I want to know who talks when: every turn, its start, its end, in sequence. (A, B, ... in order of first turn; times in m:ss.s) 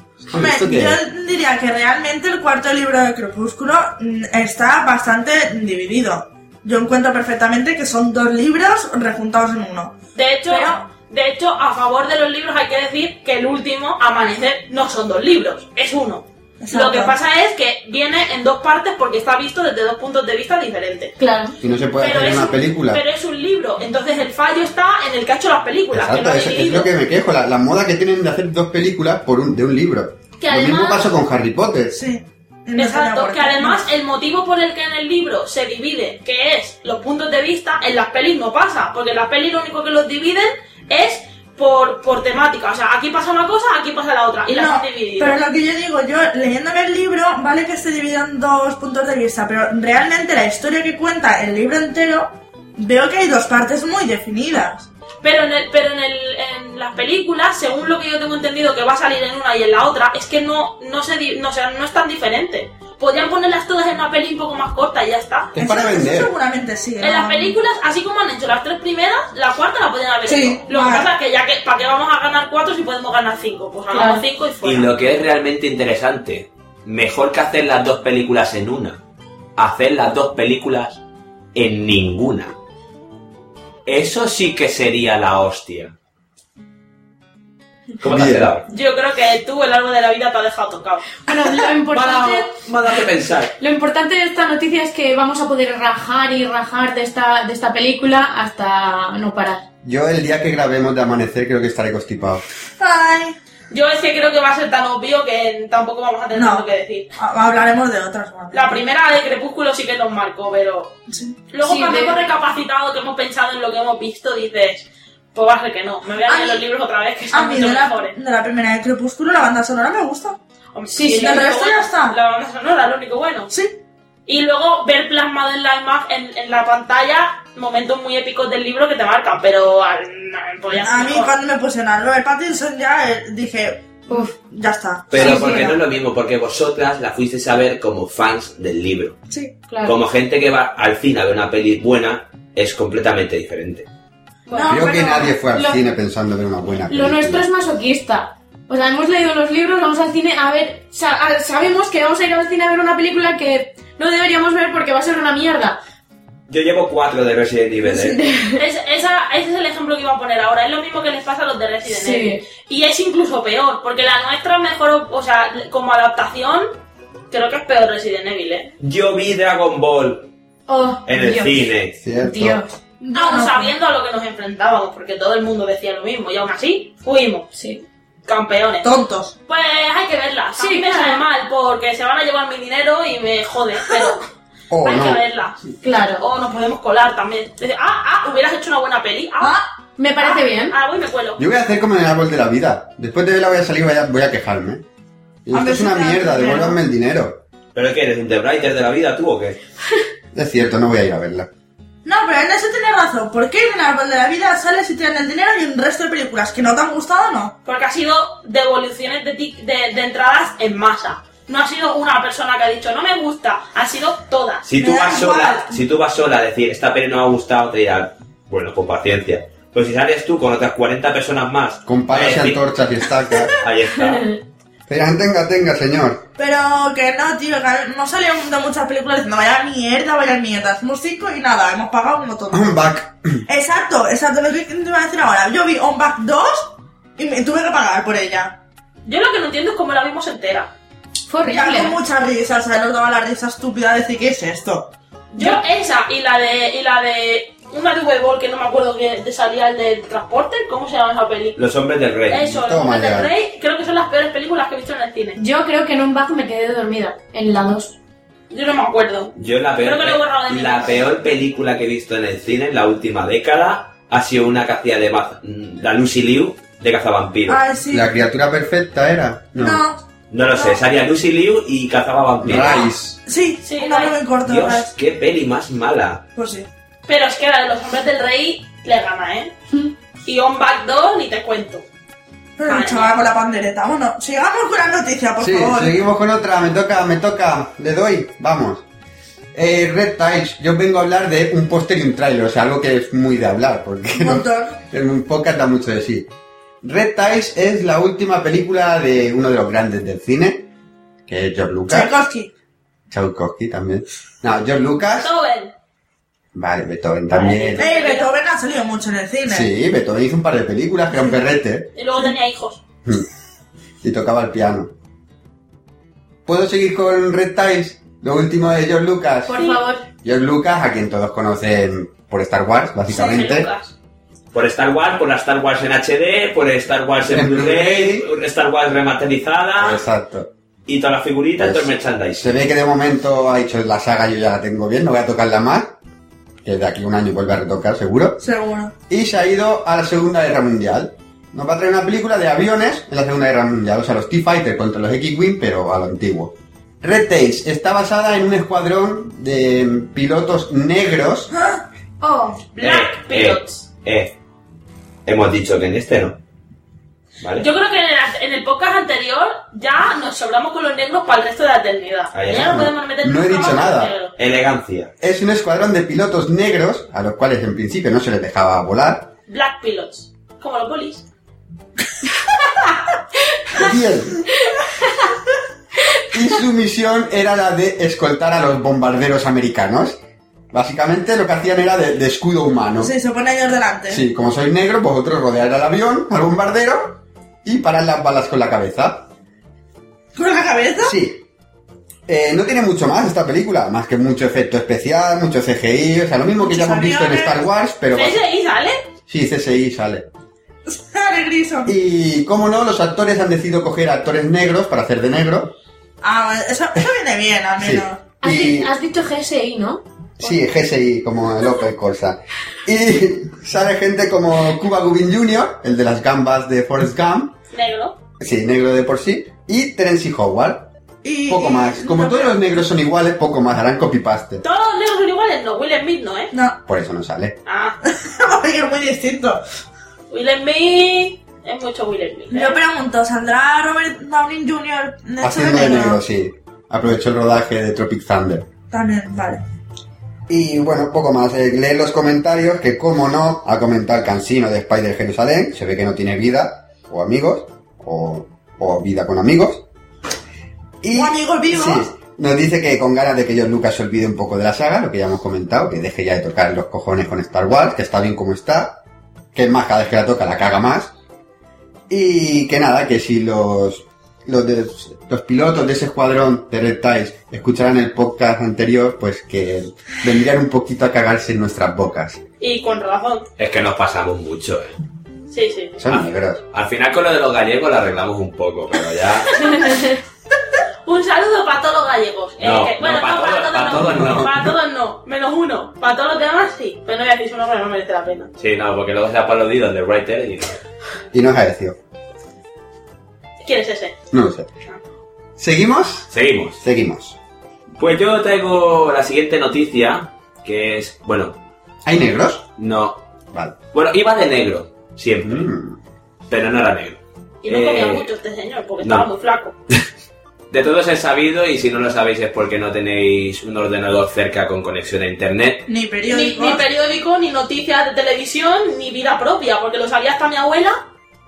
0:00.2-0:01.0 A
0:00.3-0:10.0 B
0:10.2-0:21.2 C
0:10.5-0:10.8 B
0:16.6-0:17.1 B
0:21.2-0:21.6 D
0:21.6-0:23.0 A
0:22.0-0:26.9 C
0:25.9-0:32.0 A
0:30.4-0:31.0 D
0:31.9-0:33.8 B
0:32.8-0:45.4 C
0:44.5-0:54.9 B
0:55.2-1:05.6 C
1:05.6-1:06.3 A
1:05.6-1:07.6 B
1:07.0-1:14.9 C
1:10.2-1:11.1 B
1:13.9-1:14.2 D
1:14.6-1:19.0 E
1:19.6-1:21.0 E
1:21.6-1:22.6 E
1:23.9-1:25.9 E
1:28.0-1:28.7 E
1:28.0-1:28.5 A
1:28.7-1:31.2 C
1:31.2-1:32.5 D
1:31.9-1:33.5 E
1:33.6-1:39.6 D
1:39.8-1:42.4 A
1:42.8-1:43.4 B
1:43.7-1:47.1 C
1:46.3-1:46.6 B
1:47.2-1:48.8 B
1:48.5-1:50.9 C
1:51.1-1:51.4 B
1:51.5-1:58.2 C
1:51.6-1:52.2 D
1:56.2-1:56.6 B
1:57.3-2:00.4 B
2:00.7-2:03.5 C
2:00.9-2:01.5 D
2:01.1-2:02.2 B
2:03.5-2:03.8 B
2:04.3-2:11.3 C
2:10.8-2:15.8 B
2:15.1-2:19.2 E
2:15.2-2:15.7 D
2:19.7-2:20.0 D
2:19.8-2:23.9 E
2:24.5-2:24.8 D
2:24.5-2:25.4 B
2:24.7-2:27.5 A
2:25.5-2:25.8 D
2:26.9-2:35.8 D
2:36.5-2:38.2 E
2:37.9-2:38.6 D
2:38.6-2:46.7 C
2:41.8-2:42.4 D
2:47.3-2:48.7 C
2:48.8-2:50.3 E
2:50.7-2:51.7 D
2:51.1-2:52.0 E
2:52.0-2:52.6 A
2:52.2-2:52.8 D
2:53.0-2:53.7 B
2:53.2-2:57.5 C
2:57.5-2:57.8 D
2:58.3-2:58.9 C
2:58.8-2:59.3 B
2:59.5-3:04.2 C
3:00.6-3:01.2 D
3:04.7-3:05.2 A
3:04.8-3:05.6 C
3:05.8-3:06.3 D
3:06.2-3:09.6 C
3:09.4-3:09.7 B
3:10.0-3:10.8 D
3:10.2-3:11.4 C
3:11.4-3:14.8 A
3:15.5-3:17.4 A
3:15.5-3:16.8 B
3:17.8-3:19.6 E
3:20.3-3:21.5 A
3:22.0-3:27.6 B
3:27.6-3:34.7 C
3:34.6-3:42.6 E
3:34.8-3:35.8 B
3:41.9-3:43.5 A
3:43.6-3:44.3 E
3:44.9-3:46.2 A
3:46.4-3:52.8 B
3:52.5-3:53.4 A
3:53.5-3:58.6 B
3:59.1-4:00.7 C
4:01.3-4:02.0 D
4:01.4-4:04.9 B
4:05.3-4:11.6 C
4:05.4-4:05.6 D
4:11.6-4:12.5 E
4:12.3-4:15.4 C
4:12.4-4:13.3 A
4:15.4-4:18.0 D
4:18.5-4:21.0 C
4:19.4-4:27.6 E
4:27.5-4:28.1 B
4:27.9-4:29.8 A
4:29.6-4:30.0 B
4:30.3-4:32.9 E
4:32.4-4:33.2 A
4:33.3-4:34.9 B
4:33.6-4:34.2 C
4:34.4-4:36.2 E
4:36.4-4:36.7 B
4:37.1-4:39.6 C
4:40.2-4:41.8 C
4:42.6-4:46.0 B
4:42.7-4:43.2 C
4:45.4-4:48.8 A
4:49.5-4:56.3 A
4:54.2-4:54.8 B
4:56.8-5:00.7 A
5:01.3-5:02.1 A
5:01.9-5:02.5 B
5:03.1-5:05.3 A
5:05.2-5:05.7 C
5:06.5-5:07.9 A
5:07.4-5:08.3 C
5:07.8-5:09.7 B
5:09.5-5:11.9 A
5:12.0-5:12.8 C
5:14.0-5:14.9 A
5:16.5-5:19.6 A
5:19.5-5:20.0 D
5:19.5-5:19.8 C
5:20.2-5:23.7 A
5:23.1-5:23.9 C
5:24.5-5:30.0 E
5:27.3-5:28.3 A
5:29.8-5:30.5 A
5:30.9-5:32.6 E
5:31.6-5:36.0 A
5:36.6-5:38.4 A
5:38.4-5:38.9 B
5:39.1-5:51.5 A
5:51.5-5:51.8 B
5:52.2-5:52.6 D
5:52.8-5:53.8 C
5:52.8-5:54.4 E
5:55.3-5:56.4 E
5:57.4-5:57.7 E
5:57.6-6:04.4 C
6:02.3-6:02.9 E
6:02.6-6:04.1 A
6:04.4-6:05.1 E
6:05.2-6:09.3 A
6:09.5-6:11.2 C
6:13.8-6:14.5 A
6:16.3-6:20.2 A
6:20.7-6:23.1 A
6:23.0-6:24.2 B
6:24.1-6:29.3 A
6:30.4-6:31.2 B
6:31.0-6:31.4 A
6:32.3-6:38.4 A
6:36.6-6:37.6 B
6:38.1-6:39.0 C
6:39.3-6:40.3 A
6:40.9-6:41.9 B
6:41.9-6:45.8 A
6:46.2-6:48.2 B
6:47.8-6:48.9 A
6:48.4-6:50.6 D
6:50.4-6:57.6 A
6:57.7-6:58.2 C
6:58.4-7:00.9 A
7:01.2-7:02.6 B
7:01.5-7:04.6 A
7:04.6-7:06.5 C
7:06.9-7:07.6 A
7:07.7-7:08.0 C
7:08.0-7:09.6 B
7:10.3-7:12.8 C
7:12.5-7:16.2 B
7:15.4-7:18.7 A
7:18.9-7:19.6 B
7:20.5-7:29.8 A
7:31.0-7:39.0 A
7:31.2-7:32.1 B
7:39.5-7:41.1 A
7:42.1-7:52.4 A
7:52.6-7:53.5 C
7:53.6-7:55.0 E
7:55.5-7:56.0 C
7:56.0-7:56.6 A
7:56.1-7:59.6 E
7:59.5-7:59.9 C
8:01.0-8:08.5 C
8:02.6-8:04.6 E
8:04.1-8:04.7 A
8:08.6-8:10.8 E
8:11.3-8:12.0 A
8:13.6-8:14.2 C
8:14.3-8:14.7 A
8:15.6-8:17.4 A
8:16.3-8:16.8 E
8:18.0-8:21.6 E
8:22.0-8:22.7 A
8:22.8-8:23.2 E
8:23.9-8:25.7 E
8:25.4-8:26.0 A
8:26.5-8:28.3 E
8:27.6-8:29.8 C
8:30.7-8:35.9 E
8:35.9-8:36.8 B
8:36.3-8:41.0 C